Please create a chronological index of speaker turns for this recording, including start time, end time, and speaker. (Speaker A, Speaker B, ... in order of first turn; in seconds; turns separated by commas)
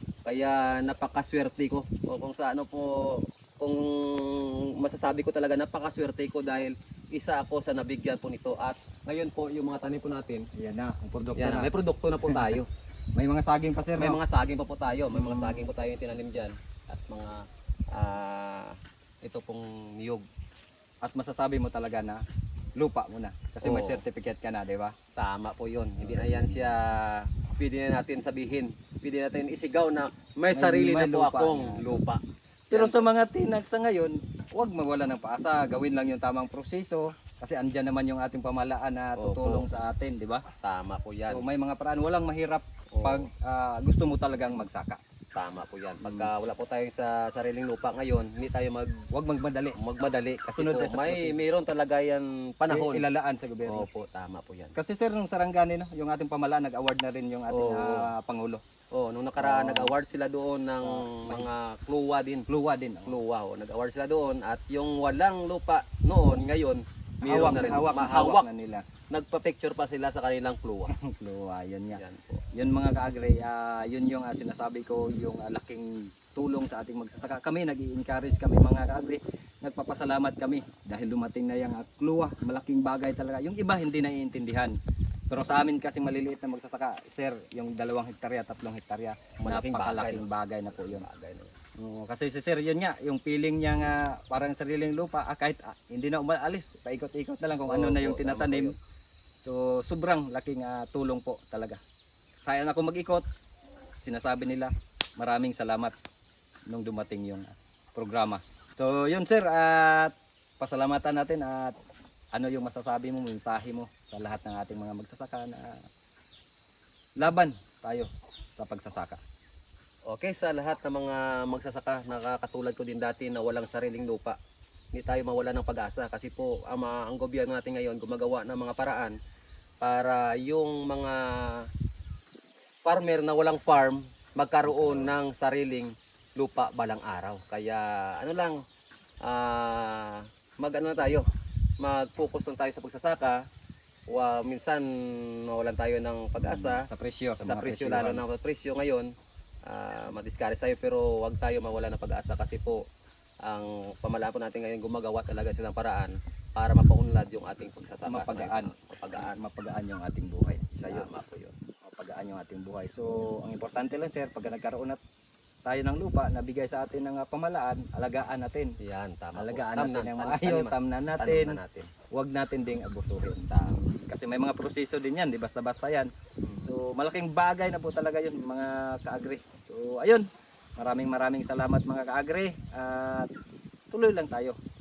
Speaker A: 0.2-10.5, Speaker B: 10.6-11.7, Speaker A: 11.4-12.7, Speaker B: 12.3-12.6, Speaker B: 13.2-14.2, Speaker A: 14.0-20.2, Speaker B: 15.1-15.7, Speaker B: 21.0-22.2, Speaker B: 22.8-24.9, Speaker A: 23.6-24.0, Speaker A: 25.1-32.2, Speaker B: 26.0-26.8, Speaker B: 30.5-31.9, Speaker B: 32.7-40.4, Speaker A: 32.7-33.1, Speaker A: 39.2-39.7, Speaker A: 40.6-41.4, Speaker B: 41.3-45.0, Speaker A: 42.9-43.3, Speaker A: 45.3-48.9, Speaker B: 46.0-46.3, Speaker B: 49.1-49.8, Speaker A: 49.7-53.0, Speaker B: 50.5-51.4, Speaker B: 52.7-53.9, Speaker A: 53.6-54.7, Speaker B: 54.7-58.6, Speaker A: 57.5-58.1, Speaker A: 58.9-62.5, Speaker B: 59.4-59.9, Speaker B: 60.8-61.5, Speaker B: 62.5-63.1, Speaker A: 63.0-68.5, Speaker B: 67.2-68.8, Speaker A: 69.1-70.9, Speaker B: 70.9-72.0, Speaker A: 72.0-72.4, Speaker B: 72.5-84.7, Speaker B: 85.3-91.0, Speaker A: 89.4-91.5, Speaker B: 91.8-98.7, Speaker A: 97.6-98.8, Speaker B: 99.4-101.8, Speaker B: 102.4-103.2, Speaker B: 104.0-105.9, Speaker B: 106.7-111.7, Speaker B: 112.3-115.8, Speaker B: 117.2-119.2, Speaker A: 120.1-124.4, Speaker A: 124.9-129.1, Speaker A: 129.8-131.7, Speaker A: 132.8-138.6, Speaker B: 134.7-135.2, Speaker A: 139.2-141.3, Speaker A: 141.8-143.4, Speaker A: 144.1-146.9, Speaker B: 146.4-148.2, Speaker A: 147.4-149.1, Speaker A: 149.7-152.8, Speaker A: 153.4-159.4, Speaker B: 158.1-161.1, Speaker A: 160.9-161.5, Speaker B: 161.8-165.0, Speaker B: 165.7-168.8, Speaker A: 168.8-171.9, Speaker B: 169.3-171.6, Speaker B: 172.1-176.1, Speaker A: 173.5-173.8, Speaker B: 176.6-180.2, Speaker B: 180.8-183.3, Speaker B: 183.9-184.6